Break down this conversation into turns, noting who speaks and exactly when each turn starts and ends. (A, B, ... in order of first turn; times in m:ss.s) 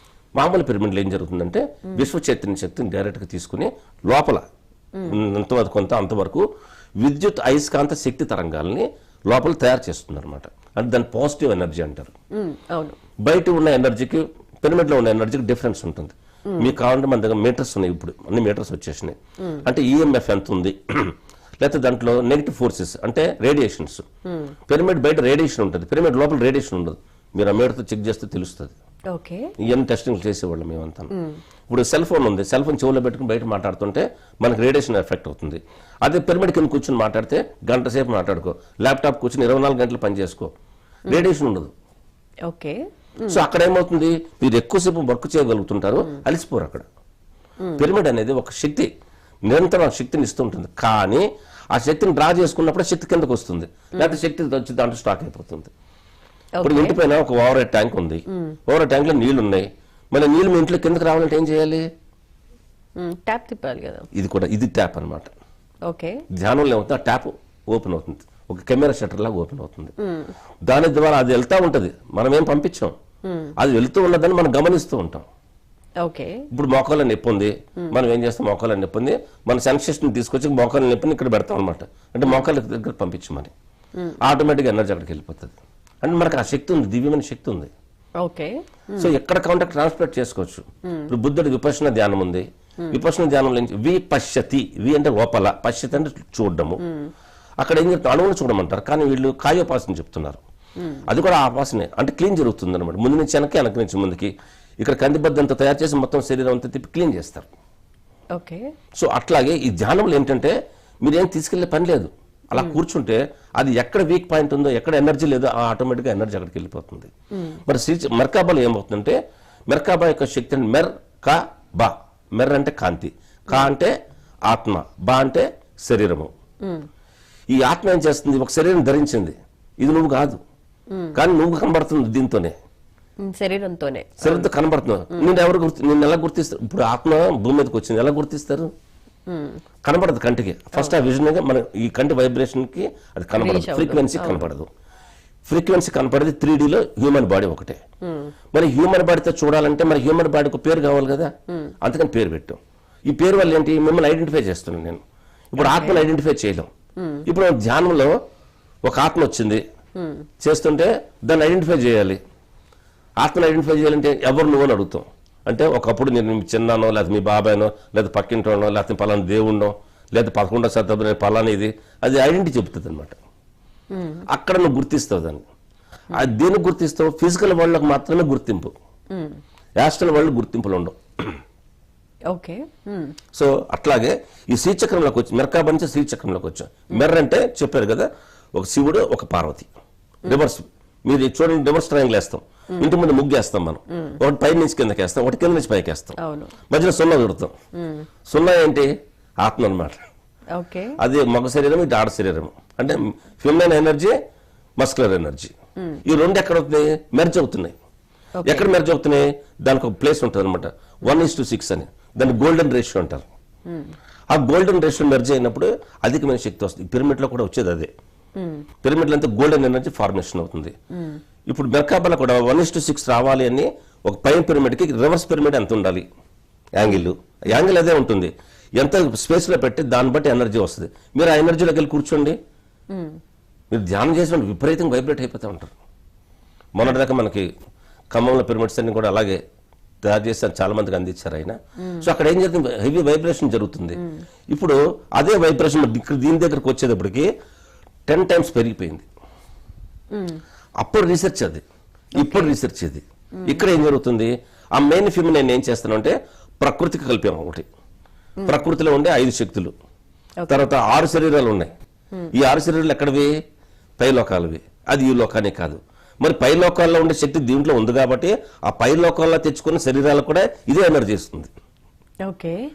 0:00.4-0:04.4 A
0:05.1-0:06.4 A
0:07.0-0:12.1 A
0:12.4-0:13.0 B
0:13.2-0:24.0 A
0:24.7-0:28.7 A
0:29.1-0:29.5 B
0:29.6-0:31.1 A
0:31.7-0:40.5 A
0:41.1-0:41.7 A
0:42.5-0:43.4 B
0:43.3-0:46.9 A
0:47.8-0:48.9 A
0:49.4-0:55.7 A
0:56.6-0:57.0 B
0:56.6-1:01.8 A
1:03.0-1:04.1 B
1:04.1-1:05.3 A
1:05.9-1:06.2 B
1:06.3-1:09.9 A
1:10.0-1:10.3 B
1:10.6-1:12.9 A
1:13.3-1:13.5 B
1:13.6-1:15.3 A
1:16.0-1:16.4 B
1:16.5-1:23.5 A
1:24.2-1:27.7 A
1:28.2-1:29.1 B
1:29.0-1:36.8 A
1:30.9-1:31.1 B
1:36.8-1:37.1 B
1:37.6-1:40.4 A
1:40.8-1:41.0 B
1:41.1-1:44.3 A
1:44.8-1:47.5 A
1:48.4-1:48.7 B
1:48.9-1:57.1 A
1:57.6-1:59.2 A
1:59.7-2:03.9 A
2:04.5-2:06.3 A
2:07.5-2:10.4 A
2:10.9-2:11.2 B
2:11.1-2:12.5 A
2:13.2-2:14.5 B
2:14.2-2:18.7 A
2:19.3-2:19.6 B
2:19.8-2:24.7 A
2:23.4-2:24.5 B
2:25.4-2:27.8 A
2:28.1-2:28.3 B
2:28.5-2:36.7 A
2:35.6-2:36.0 B
2:37.0-2:37.2 B
2:37.3-2:38.1 A
2:38.8-2:39.6 A
2:40.0-2:40.2 B
2:40.4-2:42.2 A
2:43.2-2:53.2 A
2:53.9-2:54.2 B
2:54.3-2:55.4 A
2:56.1-2:58.7 A
2:59.8-3:01.3 A
3:02.3-3:03.1 B
3:03.3-3:09.7 A
3:10.2-3:16.2 A
3:16.2-3:16.5 B
3:16.7-3:17.5 A
3:17.8-3:18.0 B
3:18.3-3:18.9 A
3:19.4-3:20.0 A
3:20.5-3:21.0 B
3:21.0-3:24.1 A
3:24.8-3:25.5 A
3:26.0-3:27.7 A
3:28.4-3:28.7 B
3:28.4-3:33.2 A
3:34.3-3:37.9 A
3:38.4-3:38.6 B
3:38.8-3:40.7 A
3:41.5-3:46.0 A
3:46.7-3:52.4 A
3:53.7-3:55.7 A
3:56.7-3:57.5 A
3:58.1-3:59.4 A
4:00.0-4:04.0 A
4:01.8-4:02.1 B
4:04.5-4:07.3 A
4:08.1-4:09.0 A
4:10.1-4:10.4 B
4:10.8-4:11.6 A
4:12.2-4:12.5 B
4:12.2-4:17.6 A
4:18.4-4:19.7 A
4:20.4-4:20.7 B
4:20.5-4:21.7 A
4:22.3-4:23.3 A
4:24.0-4:31.5 A
4:32.3-4:32.6 B